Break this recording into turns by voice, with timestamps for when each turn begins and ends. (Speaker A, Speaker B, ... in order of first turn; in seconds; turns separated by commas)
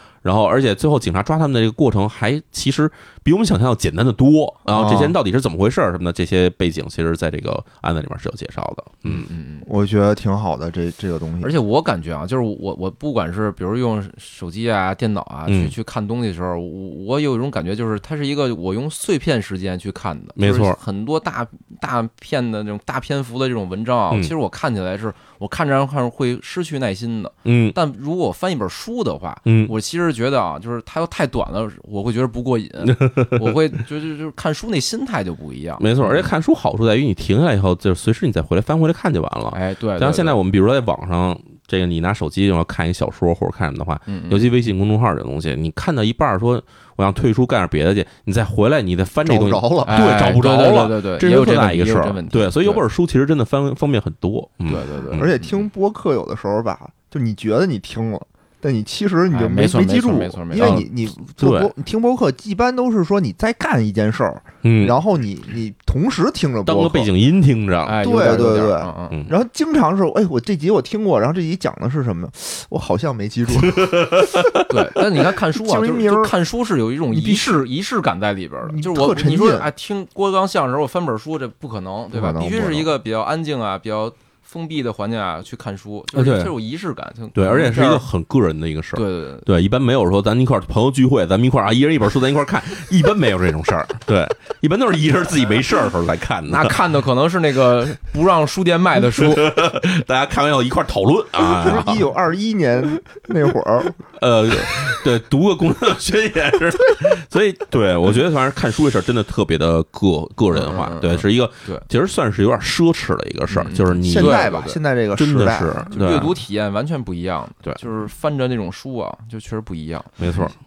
Speaker A: 0.2-9.3, Speaker B: 4.7-5.2, Speaker C: 9.0-9.7, Speaker B: 9.6-11.5, Speaker C: 11.4-36.3, Speaker A: 15.5-15.7, Speaker A: 20.4-20.8, Speaker A: 27.4-27.8, Speaker A: 29.4-29.7, Speaker A: 32.9-33.6, Speaker A: 35.8-55.3, Speaker C: 39.5-40.4, Speaker C: 44.1-44.5, Speaker B: 49.2-50.0, Speaker C: 49.9-52.8, Speaker C: 54.7-55.6, Speaker B: 55.1-67.1, Speaker C: 59.3-60.8, Speaker A: 60.5-61.7, Speaker A: 64.6-65.0, Speaker A: 66.6-68.0, Speaker C: 67.8-69.2, Speaker B: 68.0-74.5, Speaker A: 73.6-74.7, Speaker C: 74.7-88.0, Speaker B: 75.4-76.3, Speaker B: 77.1-77.6, Speaker B: 78.7-79.7, Speaker B: 82.1-82.9, Speaker A: 86.1-86.5, Speaker A: 87.3-96.8, Speaker C: 88.9-89.5, Speaker C: 96.5-99.5, Speaker A: 99.0-102.1, Speaker B: 101.4-104.0, Speaker A: 104.2-116.3, Speaker C: 110.5-111.8, Speaker C: 113.5-114.8, Speaker B: 114.0-115.9, Speaker C: 115.9-120.5, Speaker A: 120.2-120.5